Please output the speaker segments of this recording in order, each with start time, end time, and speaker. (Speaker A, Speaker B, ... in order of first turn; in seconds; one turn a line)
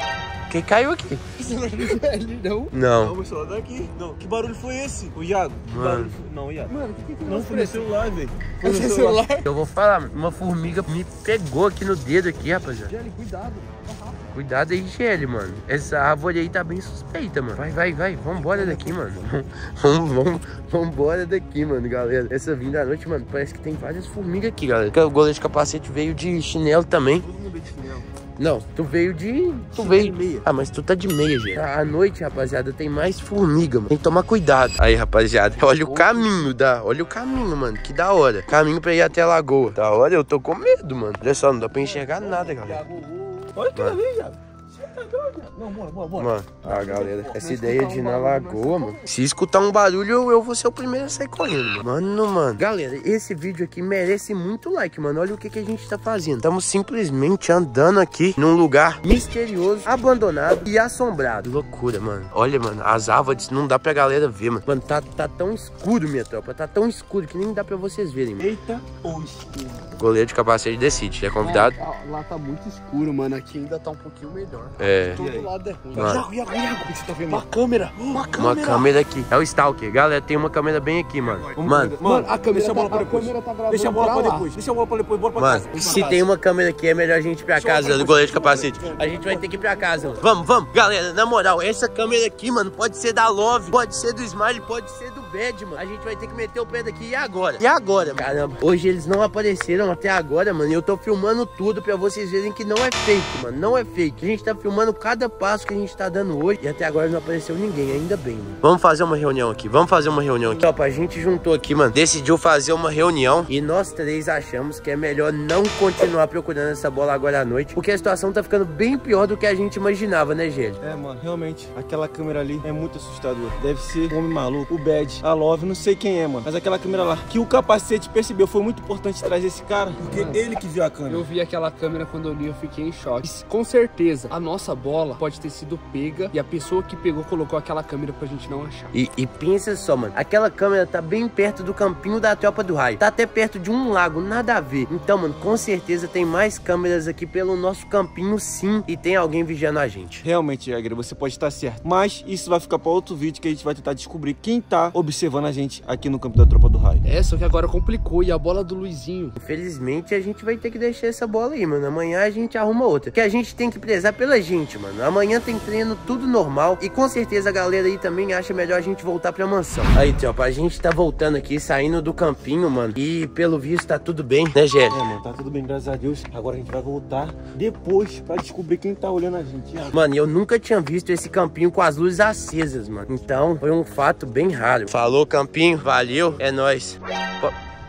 Speaker A: 0.5-1.2
Speaker B: 1.4-2.7
Speaker A: 2.7-3.1
Speaker C: 3.0-6.7
Speaker A: 5.6-6.1
Speaker B: 6.7-7.9
Speaker C: 7.2-9.2
Speaker B: 8.6-9.4
Speaker A: 9.4-12.9
Speaker B: 12.8-14.3
Speaker A: 14.3-27.2
Speaker C: 18.3-19.2
Speaker C: 27.1-28.1
Speaker A: 28.4-42.8
Speaker C: 29.7-30.5
Speaker C: 35.9-36.2
Speaker C: 41.8-47.4
Speaker A: 46.2-68.5
Speaker B: 47.3-49.0
Speaker C: 68.4-69.9
Speaker A: 70.0-71.8
Speaker B: 71.4-76.4
Speaker A: 74.8-75.2
Speaker C: 75.2-78.4
Speaker A: 75.9-76.2
Speaker B: 77.2-78.9
Speaker A: 78.3-82.0
Speaker C: 81.3-86.1
Speaker B: 82.0-84.5
Speaker A: 85.3-120.8
Speaker B: 85.7-86.2
Speaker C: 87.5-90.3
Speaker C: 120.8-131.3
Speaker B: 130.0-130.4
Speaker B: 131.1-138.9
Speaker A: 138.9-150.2
Speaker C: 150.2-157.0
Speaker B: 157.0-159.3
Speaker A: 159.4-175.0
Speaker C: 174.9-179.9
Speaker A: 179.9-187.5